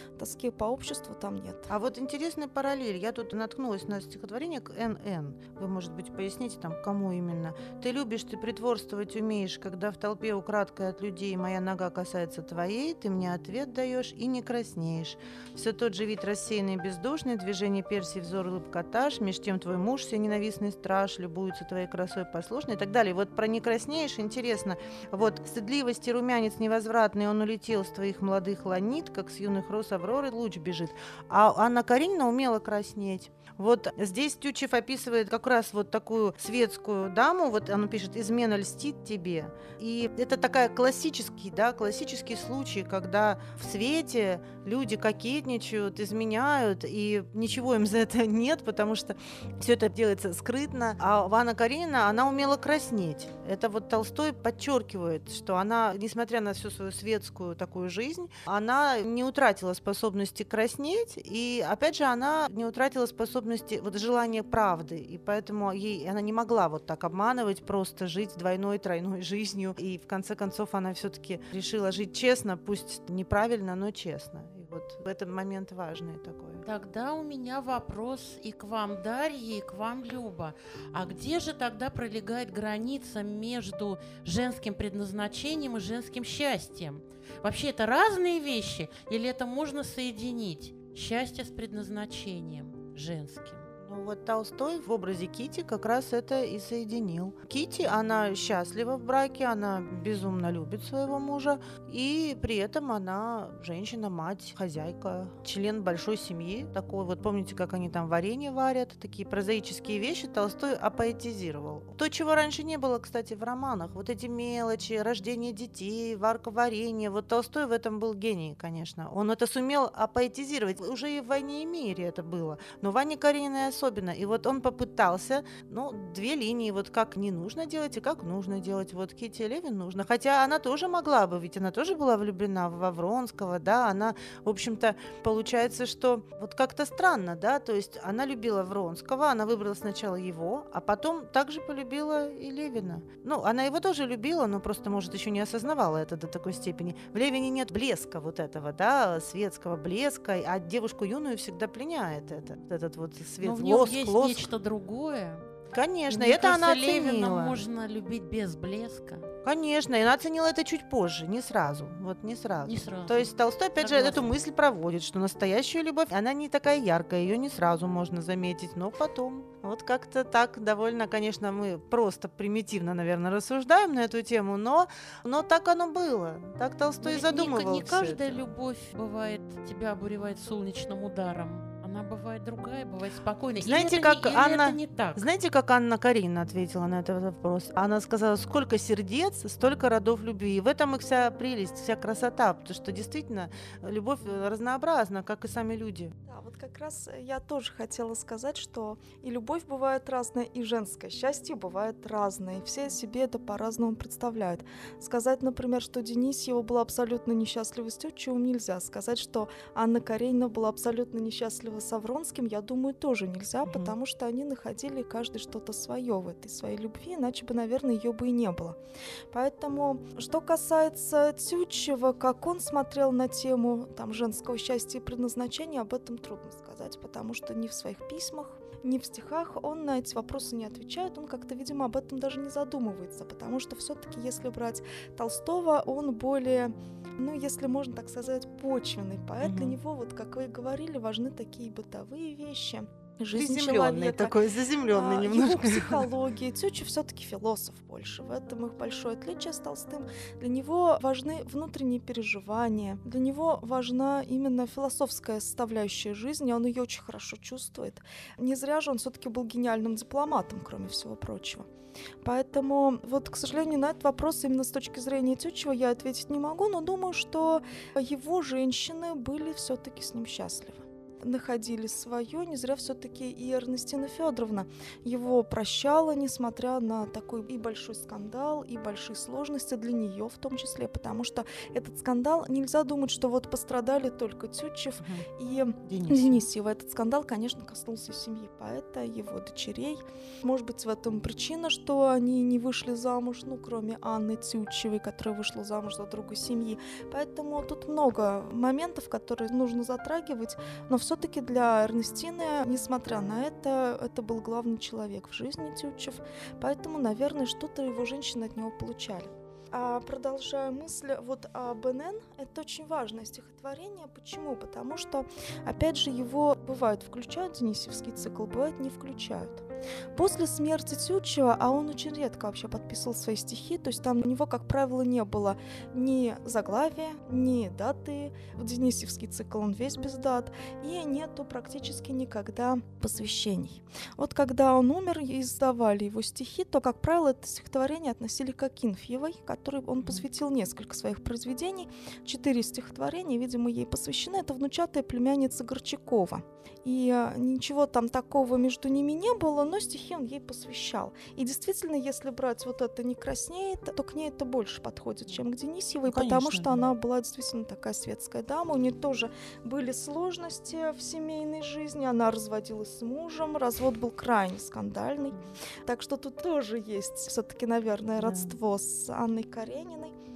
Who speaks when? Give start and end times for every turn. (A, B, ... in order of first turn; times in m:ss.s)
0:00.2-0:01.7 A
0:01.7-1:16.6 B
1:16.6-1:33.7 C
1:33.8-2:34.5 B
2:33.4-2:35.4 C
2:35.7-2:37.6 B
2:36.1-2:39.3 C
2:39.4-2:58.4 B
2:42.6-2:44.3 C
2:57.0-3:05.2 C
3:03.6-3:16.1 B
3:16.2-3:38.8 A
3:33.6-3:33.9 B
3:39.3-4:04.4 A
3:59.4-3:59.8 B
4:03.3-4:06.1 B
4:04.9-4:21.7 A
4:22.2-6:10.1 A
4:45.8-4:46.4 B
5:56.1-5:56.8 B
6:08.2-6:08.5 B